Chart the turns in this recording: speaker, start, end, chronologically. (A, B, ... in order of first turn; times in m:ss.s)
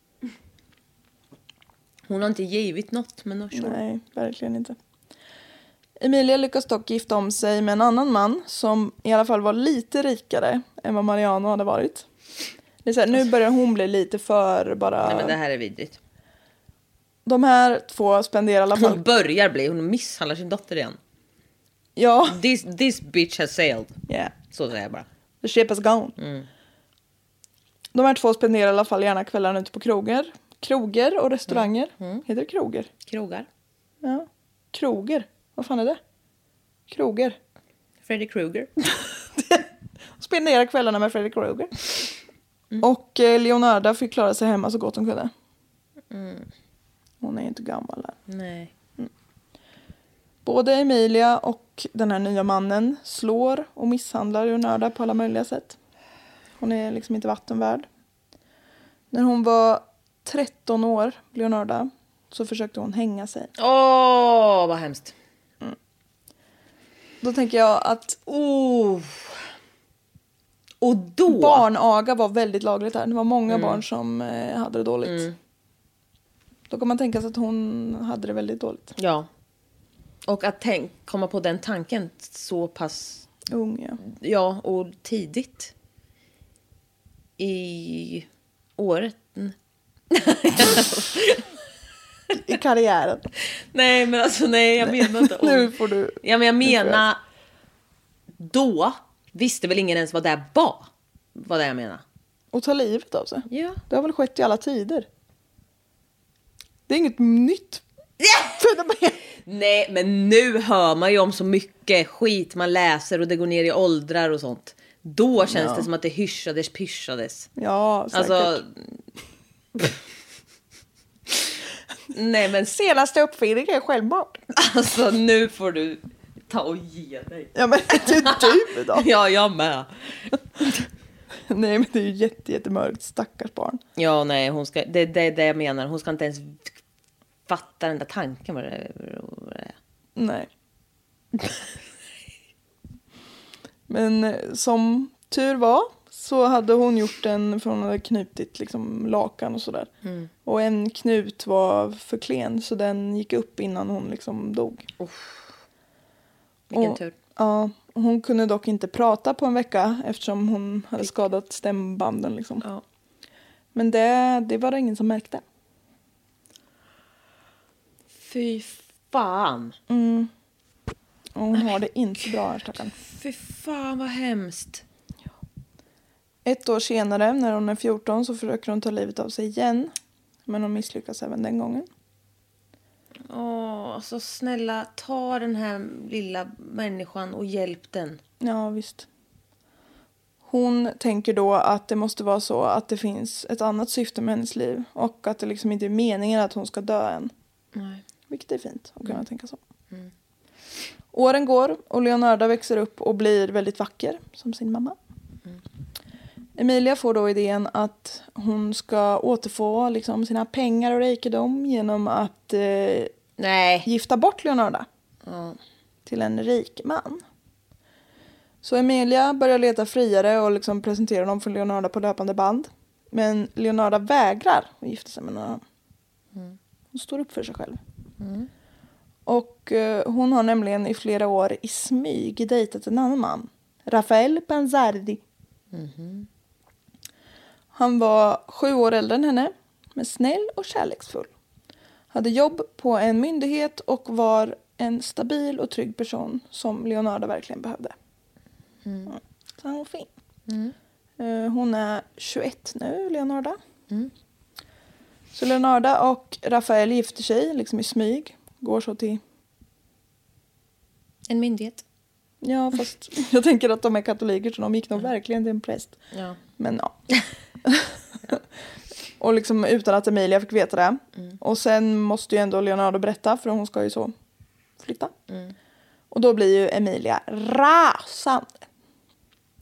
0:02.1-0:03.8 A
0:03.5-0:04.8 B
0:06.0-0:12.0 B
0:12.8-0:15.4 B
0:15.0-0:16.0 A
0:17.2-0:19.0 B
0:18.8-0:21.0 A
0:22.0-0:22.4 B
0:22.3-0:25.1 A
0:24.1-0:24.3 B
0:25.4-0:26.2 B
0:26.2-0:26.5 A
0:27.9-0:32.9 B
0:31.5-0:32.2 A
0:33.1-0:33.5 A
0:34.0-0:36.0 B
0:36.9-0:37.4 B
0:38.1-0:38.7 A
0:39.4-0:39.6 B
0:40.2-0:42.0 B
0:42.8-0:45.3 B
0:46.1-0:46.5 A
0:47.2-0:48.2 B
0:48.3-0:48.7 A
0:50.4-0:55.8 B
0:56.6-0:57.9 B
0:59.1-1:03.5 B
1:03.6-1:05.1 A
1:07.2-1:08.2 B
1:08.2-1:09.4 A
1:10.8-1:11.6 A
1:11.3-1:15.3 B
1:13.5-1:13.8 A
1:15.0-1:15.4 A
1:16.7-1:18.9 B
1:19.0-1:19.3 A
1:20.2-1:23.3 A
1:23.5-1:24.0 B
1:24.0-1:25.7 A
1:27.4-1:29.6 A
1:30.1-1:31.5 A
1:32.4-1:33.3 B
1:33.7-1:37.2 A
1:34.8-1:37.0 B
1:38.4-1:42.0 A
1:42.5-1:45.1 B
1:43.5-1:43.8 A
1:46.9-1:47.8 B
1:48.2-1:48.5 A
1:48.3-1:49.2 B
1:49.4-1:57.5 A
1:55.4-1:55.9 B
1:57.6-1:58.6 B
1:58.1-1:58.7 A
2:02.1-2:02.7 A
2:02.7-2:04.4 B
2:04.5-2:10.3 A
2:07.6-2:09.1 B
2:11.5-2:13.8 B
2:14.0-2:16.8 A
2:17.5-2:19.8 A
2:20.2-2:20.5 B
2:23.9-2:29.9 B
2:30.0-2:30.3 A
2:30.4-2:34.9 B
2:35.0-2:35.5 A
2:36.7-2:37.1 A
2:36.7-2:42.6 B
2:43.7-2:45.4 B
2:48.1-2:49.8 A
2:49.9-2:50.3 B
2:51.4-2:52.9 B
2:53.0-2:54.8 A
2:56.4-2:59.9 B
3:00.5-3:01.9 B
3:03.3-3:08.2 A
3:08.4-3:09.1 B
3:10.4-3:17.3 B
3:17.7-3:18.0 A
3:18.3-3:19.6 B
3:21.1-3:25.0 B
3:26.6-3:33.1 B
3:33.4-3:33.9 A
3:33.8-3:34.9 B
3:35.2-3:35.6 A
3:36.1-3:37.2 B
3:38.6-3:45.6 B
3:46.9-3:47.8 B
3:48.2-3:48.5 A
3:49.2-3:55.2 B
3:55.7-3:56.3 A
3:57.7-4:01.3 B
4:02.1-4:07.9 B
4:08.8-4:09.2 A
4:09.1-4:10.1 B
4:10.5-4:10.8 A
4:11.2-4:13.6 B
4:15.3-4:19.2 B
4:21.3-4:21.8 A
4:22.4-4:26.0 B
4:26.1-4:26.4 A
4:26.6-4:27.0 B
4:27.6-4:28.4 B
4:29.2-4:34.1 B
4:34.8-4:35.1 B
4:35.3-4:35.5 A
4:36.1-4:38.6 B